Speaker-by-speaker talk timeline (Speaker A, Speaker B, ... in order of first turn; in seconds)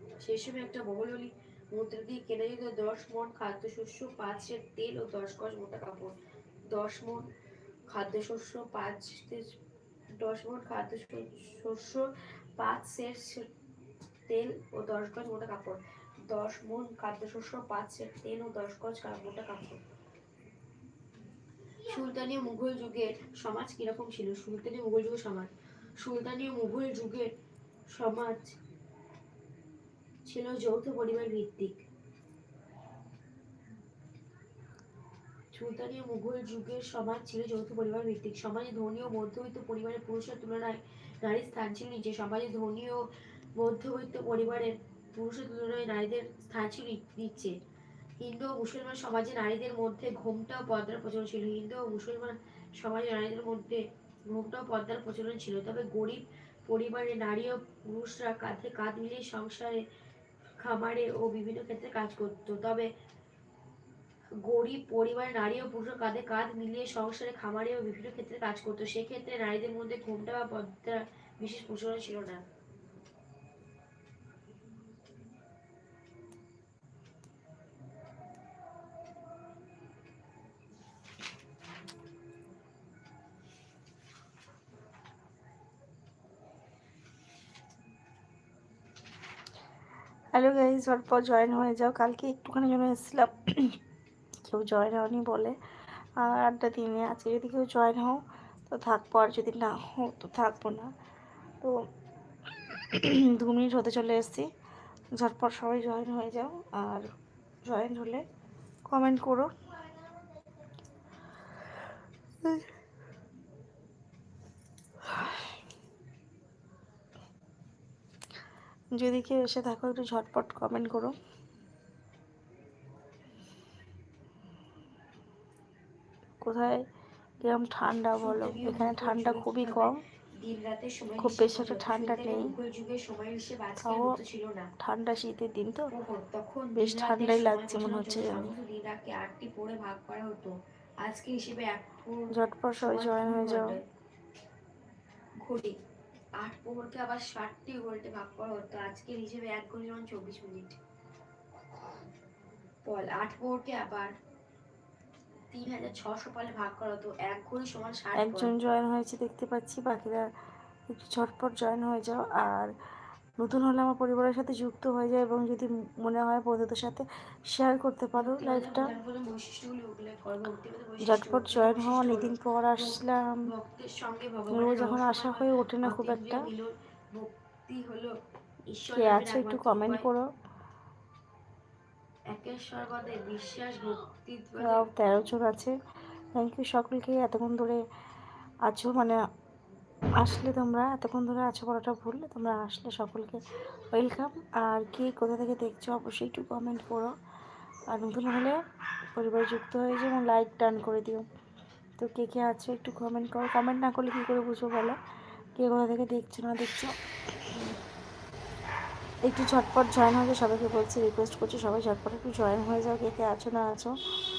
Speaker A: 0.2-6.1, 6.7-7.2, 7.9-9.5, 10.2-12.1, 12.6-13.5, 14.3-19.8, 21.9-27.3, 27.9-28.6, 30.2-31.8, 35.5-43.0, 43.6-47.5, 48.2-59.8, 60.6-62.9, 64.4-72.4, 128.2-134.7, 135.9-142.3, 142.8-143.8, 145.4-145.8, 146.4-150.8, 152.8-154.1, 155.5-158.5, 168.2-178.1, 178.7-180.1, 182.3-184.9
Speaker B: 90.3-93.8, 94.4-95.5, 96.2-100.9, 102.6-104.5, 105.2-107.1, 107.6-108.2, 108.9-109.5, 118.9-121.1, 126.4-126.8, 127.4-130.0, 131.2-132.5, 133.8-134.2, 134.8-135.9, 136.8-138.5, 142.3-143.8, 158.1-160.3, 160.9-162.7, 163.4-168.9, 171.0-173.4, 174.5-176.5, 178.9-180.3, 184.6-185.8, 186.3-187.8, 188.6-189.2, 190.2-197.1, 197.9-198.6, 199.1-201.3, 202.0-205.0, 205.5-207.7, 209.2-213.9